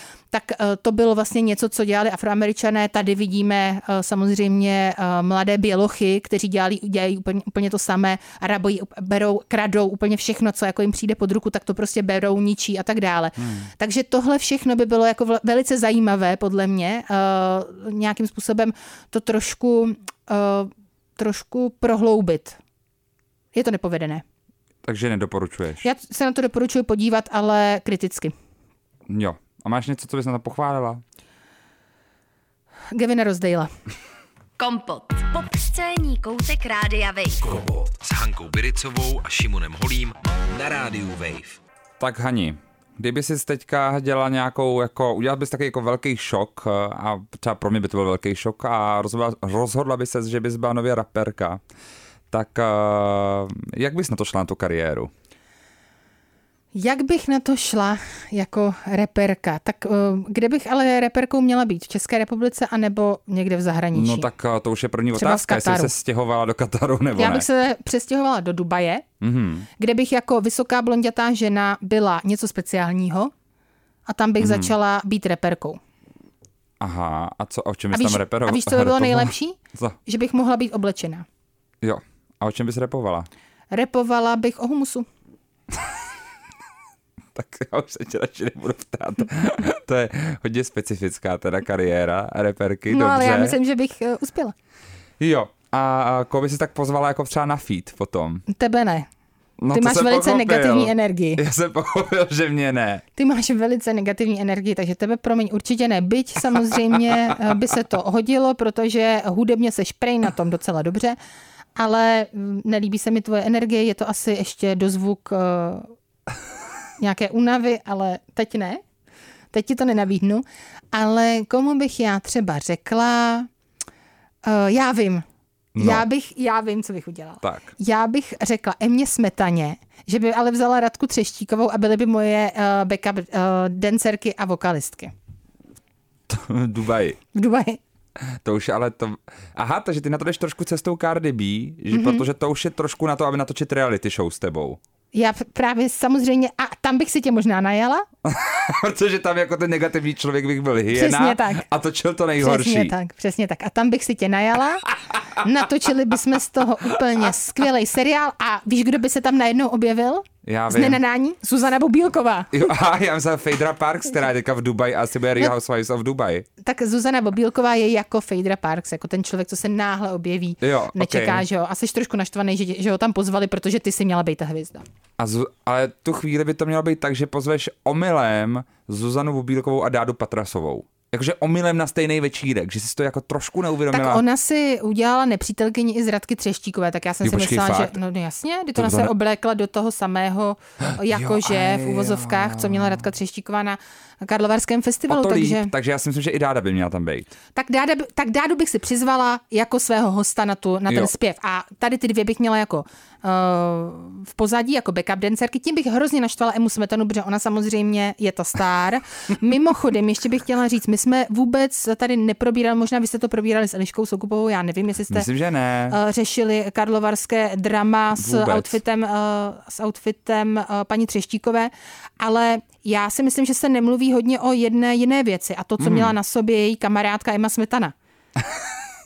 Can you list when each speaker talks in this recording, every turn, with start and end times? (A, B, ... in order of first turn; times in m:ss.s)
0:00.3-0:22.6 A
0:13.4-0:13.7 B
0:23.5-0:24.2 A
0:24.8-0:25.8 B
0:25.8-0:28.3 A
0:29.1-0:31.0 B
0:32.9-0:33.7 A
0:34.6-0:37.4 C
0:37.4-0:41.6 D
0:42.0-0:51.6 B
0:52.3-0:55.1 B
0:56.7-1:04.3 A
1:04.0-1:07.5 B
1:05.2-1:05.9 A
1:07.2-1:09.0 A
1:09.2-1:09.7 B
1:09.8-1:13.3 A
1:14.1-1:15.8 A
1:14.4-1:14.7 B
1:16.8-1:20.0 B
1:17.9-1:21.3 A
1:21.8-1:23.3 B
1:23.7-1:25.1 A
1:25.7-1:26.0 B
1:27.3-1:33.6 B
1:32.9-1:34.6 A
1:35.2-1:38.4 B
1:38.5-1:39.1 A
1:39.6-1:43.0 B
1:39.7-1:41.4 A
1:43.2-1:51.2 A
1:46.6-1:47.6 B
1:51.8-1:55.9 A
1:57.0-1:58.8 A
1:59.5-2:03.5 A
2:04.4-2:05.2 A
2:05.8-2:06.0 B
2:05.8-2:15.1 A
2:07.4-2:07.7 B
2:16.3-2:17.2 B
2:17.4-2:17.8 A
2:18.4-2:24.8 B
2:21.9-2:22.2 A
2:25.1-2:28.0 A
2:28.2-2:32.9 B
2:30.9-2:31.6 A
2:32.4-2:34.9 A
2:34.9-2:35.5 B
2:35.4-2:42.5 A
2:40.4-2:41.0 B
2:42.5-2:46.5 B
2:46.6-2:54.8 A
2:50.6-2:51.4 B
2:55.2-3:04.2 B
3:03.9-3:15.7 A
3:07.2-3:08.0 B
3:08.8-3:09.1 B
3:11.0-3:13.1 B
3:15.1-3:17.3 B
3:17.6-3:35.3 A
3:35.1-3:36.0 B
3:35.9-3:48.0 A
3:38.2-3:38.8 B
3:45.8-3:46.1 B
3:48.4-3:48.9 B